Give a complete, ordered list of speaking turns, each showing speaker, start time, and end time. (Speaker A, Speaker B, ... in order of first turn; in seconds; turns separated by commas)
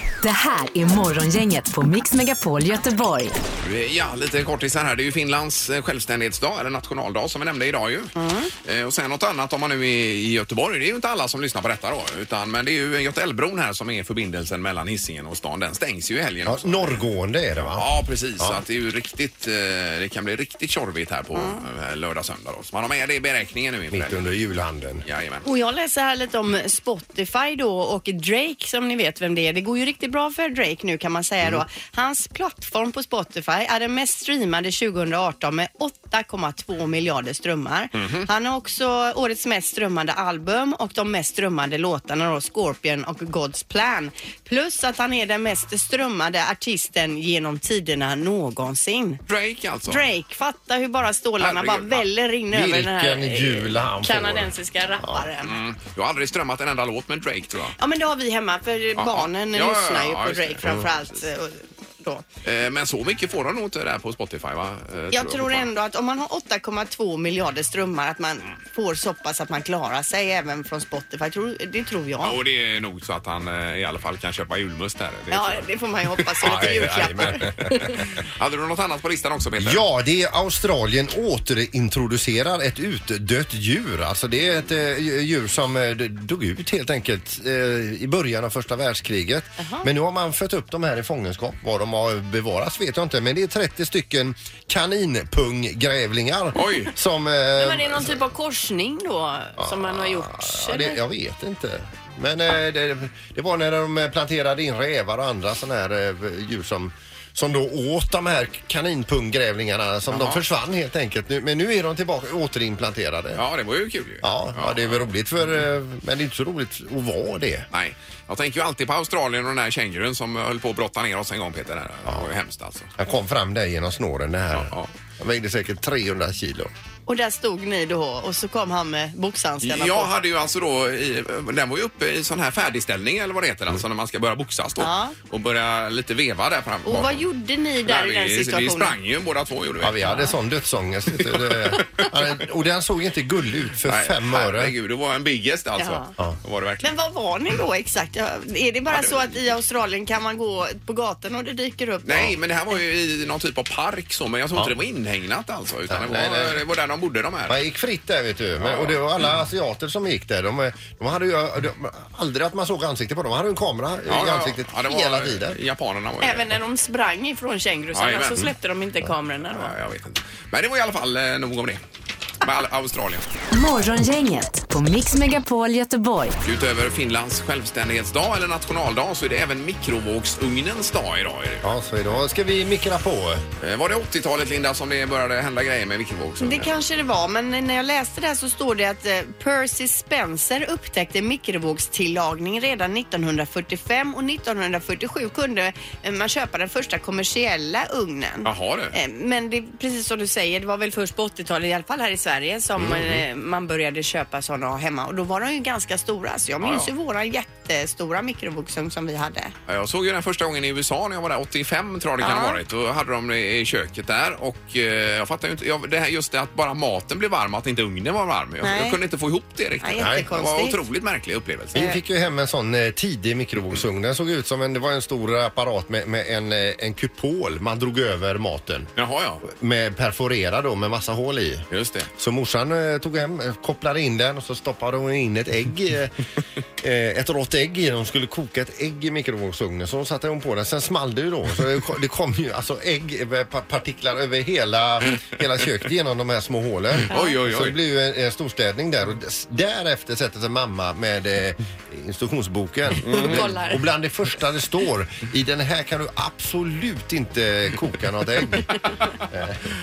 Speaker A: 0.2-3.4, Speaker B: 3.6-17.0, Speaker C: 8.2-8.5, Speaker D: 16.5-17.9, Speaker B: 17.6-24.2, Speaker C: 21.3-21.6, Speaker D: 23.9-25.0, Speaker B: 25.1-25.5, Speaker C: 25.4-49.2, Speaker B: 38.0-38.3, Speaker B: 49.3-50.0, Speaker C: 49.9-55.5, Speaker B: 51.4-52.0, Speaker D: 52.5-55.3, Speaker B: 55.4-57.8, Speaker C: 57.8-62.2, Speaker B: 59.0-61.1, Speaker B: 62.4-65.7, Speaker C: 65.1-72.4, Speaker B: 72.2-75.7, Speaker C: 75.3-77.9, Speaker B: 76.2-79.8, Speaker D: 76.4-78.0, Speaker D: 79.6-98.2, Speaker C: 89.6-89.9, Speaker B: 96.6-96.9, Speaker C: 97.6-101.0, Speaker D: 99.6-113.4, Speaker B: 110.1-110.4, Speaker B: 113.3-115.0, Speaker D: 114.2-117.7, Speaker B: 117.7-122.9, Speaker D: 123.0-126.7, Speaker B: 124.5-124.9, Speaker C: 127.1-130.1, Speaker B: 129.6-137.3, Speaker C: 134.8-135.2, Speaker C: 136.9-138.9, Speaker B: 137.8-140.1, Speaker D: 139.8-144.7, Speaker C: 140.1-140.3, Speaker B: 141.2-142.2, Speaker B: 143.8-146.9, Speaker C: 145.8-146.1, Speaker C: 146.8-152.3, Speaker B: 148.9-149.3, Speaker B: 152.1-157.6, Speaker D: 155.9-156.6, Speaker D: 157.5-165.6, Speaker B: 158.6-159.0, Speaker B: 164.1-166.6, Speaker C: 166.2-169.7, Speaker B: 167.9-168.5, Speaker B: 169.5-171.8, Speaker B: 172.4-173.2, Speaker A: 173.5-176.4, Speaker B: 176.4-181.7, Speaker D: 181.6-183.4, Speaker B: 183.6-186.8, Speaker C: 186.4-209.5, Speaker B: 198.4-198.9, Speaker D: 202.8-203.2, Speaker B: 206.6-206.9, Speaker B: 209.7-221.9, Speaker C: 212.2-212.6, Speaker C: 218.6-219.0, Speaker C: 219.8-220.8, Speaker D: 220.0-220.3, Speaker D: 221.7-228.9, Speaker C: 221.8-222.0, Speaker B: 229.0-229.4, Speaker D: 229.4-236.2, Speaker B: 231.7-232.1, Speaker D: 236.8-259.6, Speaker B: 247.1-247.8, Speaker B: 253.0-253.5, Speaker C: 253.1-253.8